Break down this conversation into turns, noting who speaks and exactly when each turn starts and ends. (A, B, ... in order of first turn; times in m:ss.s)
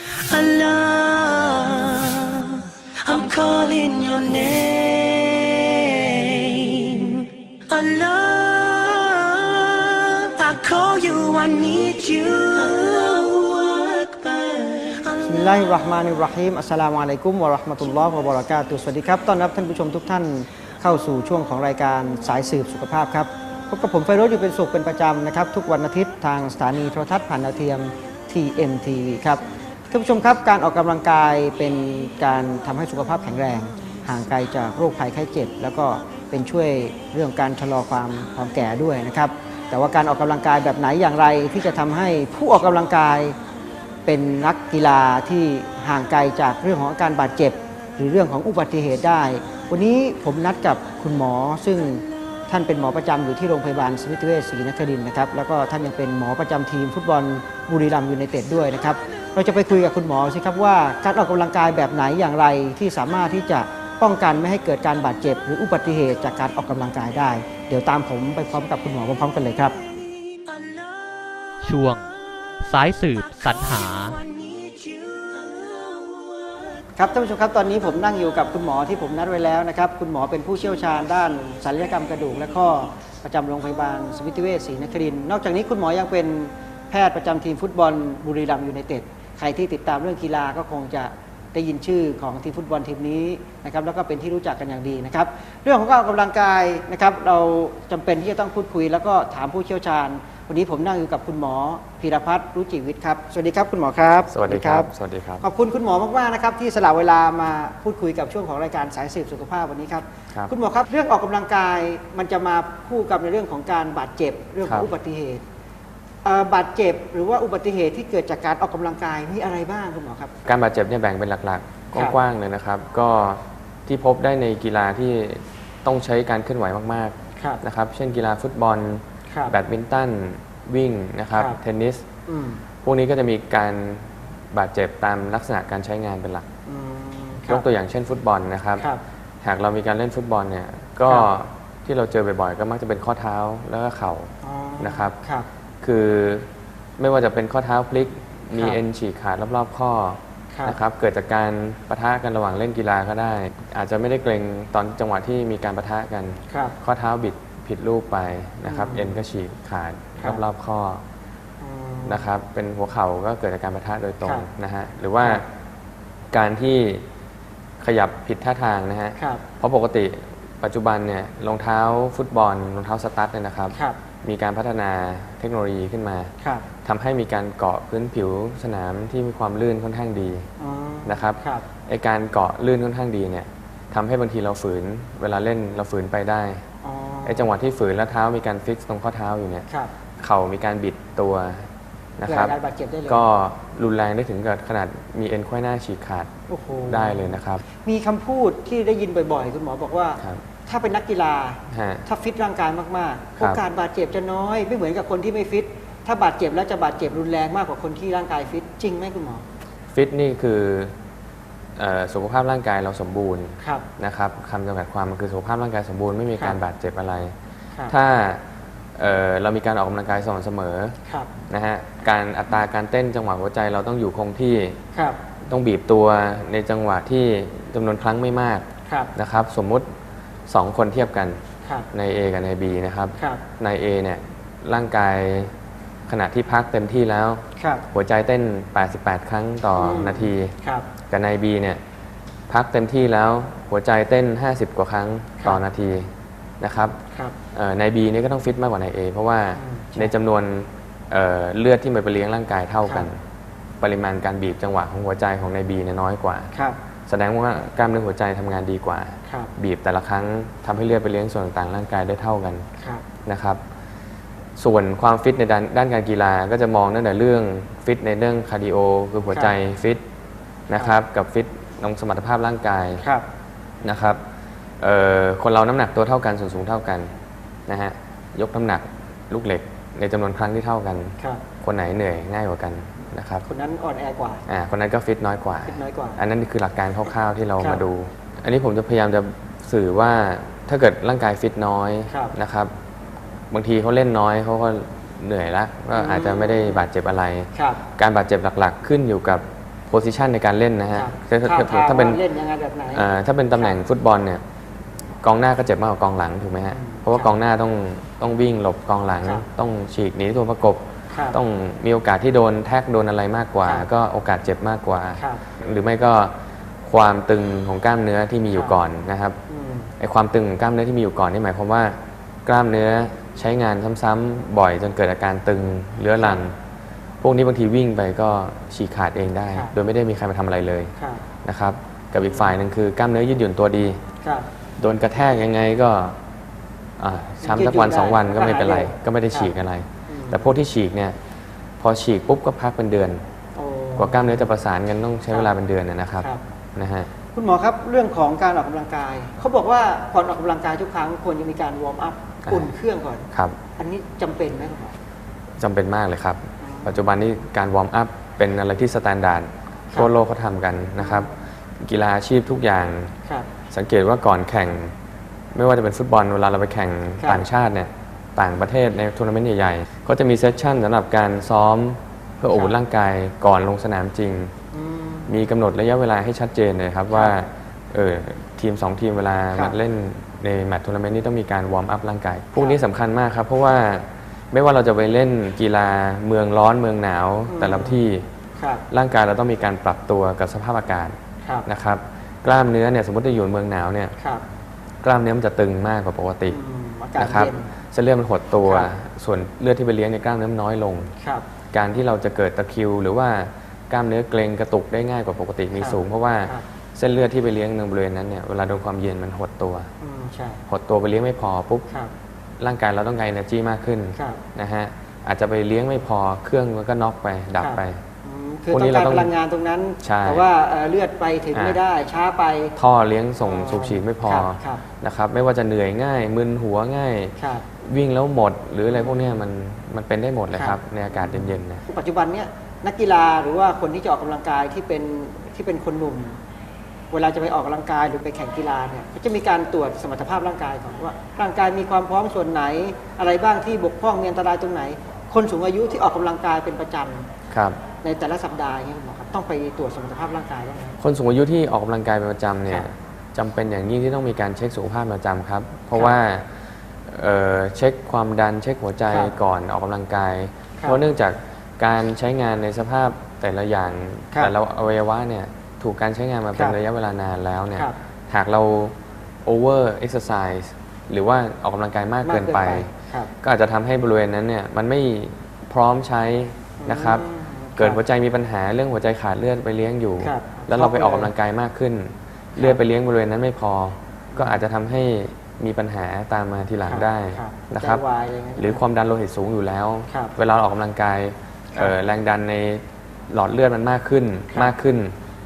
0:00.1-0:15.6 A
0:15.3-0:43.4 B
0:44.1-1:09.8 B
1:09.9-1:11.5 A
1:11.6-1:12.1 C
1:12.6-1:14.2 C
1:13.2-1:16.6 A
1:17.0-1:44.9 B
1:44.3-1:45.4 D
1:45.4-1:55.4 B
1:54.6-1:54.9 D
1:56.2-2:00.3 B
2:00.5-2:12.1 D
2:12.3-2:12.6 B
2:12.8-2:16.5 D
2:16.7-2:17.6 B
2:17.5-2:18.9 D
2:19.4-2:25.2 D
2:24.4-2:25.5 B
2:25.8-2:41.0 D
2:38.6-2:39.2 B
2:41.6-2:42.3 B
2:42.1-2:45.5 D
2:44.2-2:44.5 B
2:46.3-2:47.1 D
2:47.8-2:56.3 D
2:49.2-2:49.4 B
2:56.8-3:00.5 D
3:00.6-3:01.6 B
3:01.0-3:06.7 D
3:06.8-3:07.5 B
3:07.2-3:09.7 D
3:10.2-3:12.6 D
3:12.3-3:13.3 B
3:13.1-3:16.3 D
3:16.5-3:29.4 B
3:16.9-3:17.6 D
3:21.7-3:22.0 D
3:29.9-3:30.9 D
3:31.8-3:37.4 D
3:37.9-3:38.4 D
3:39.0-3:41.0 D
3:41.5-3:44.8 D
3:45.0-3:45.2 B
3:45.5-3:49.9 D
3:50.5-3:51.4 D
3:51.9-3:55.5 D
3:56.1-4:00.5 D
3:57.6-3:57.8 B
3:59.8-4:00.9 B
4:01.1-4:01.8 D
4:02.5-4:07.0 D
4:07.5-4:13.2 D
4:09.6-4:10.1 B
4:13.8-4:16.5 D
4:17.1-4:22.7 D
4:22.8-4:23.0 B
4:23.3-4:23.6 D
4:24.6-4:30.0 D
4:30.7-4:33.0 D
4:33.8-4:34.2 D
4:34.8-4:37.1 D
4:37.7-4:43.5 D
4:43.5-4:44.4 B
4:44.5-4:52.7 D
4:45.6-4:46.2 B
4:53.5-5:02.2 D
4:56.0-4:56.8 B
4:57.5-4:57.8 B
5:01.0-5:03.8 B
5:02.9-5:04.4 D
5:05.2-5:19.4 D
5:06.7-5:07.3 B
5:11.1-5:11.4 B
5:19.5-5:19.9 B
5:20.0-5:26.6 D
5:27.2-5:30.9 D
5:31.0-5:31.2 B
5:31.4-5:34.0 D
5:34.8-5:36.2 D
5:37.0-5:41.2 D
5:37.4-5:39.5 B
5:40.1-5:40.6 B
5:41.8-5:43.2 D
5:43.6-5:44.5 B
5:44.0-5:47.1 D
5:47.3-5:53.2 B
5:53.3-5:53.6 D
5:53.8-5:55.0 B
5:55.6-6:03.1 D
5:56.6-5:57.1 B
6:01.0-6:01.3 B
6:03.7-6:04.9 D
6:05.5-6:14.5 D
6:07.2-6:07.4 B
6:12.5-6:12.8 B
6:14.7-6:15.3 B
6:15.3-6:28.3 D
6:27.5-6:28.0 B
6:28.6-6:28.8 B
6:28.9-6:34.2 D
6:34.2-6:34.4 B
6:35.0-6:36.6 D
6:36.5-6:37.7 B
6:37.2-6:41.1 D
6:38.6-6:38.9 B
6:41.7-6:49.9 D
6:45.8-6:46.6 B
6:50.0-6:50.6 B
6:50.7-6:51.9 D
6:52.6-6:58.0 D
6:57.6-7:02.7 B
6:58.7-6:59.3 D
7:00.0-7:00.4 D
7:01.5-7:01.8 D
7:02.8-7:11.8 D
7:03.4-7:04.8 B
7:07.4-7:07.6 B
7:10.5-7:16.4 B
7:17.1-7:27.3 B
7:27.5-7:27.8 D
7:28.0-7:31.0 B
7:31.0-7:36.5 D
7:37.1-7:52.9 D
7:52.2-7:53.3 B
7:53.4-7:57.2 D
7:56.8-7:58.0 B
7:57.8-8:08.0 D
8:00.2-8:01.3 B
8:04.3-8:04.6 B
8:06.9-8:08.8 B
8:08.6-8:15.2 D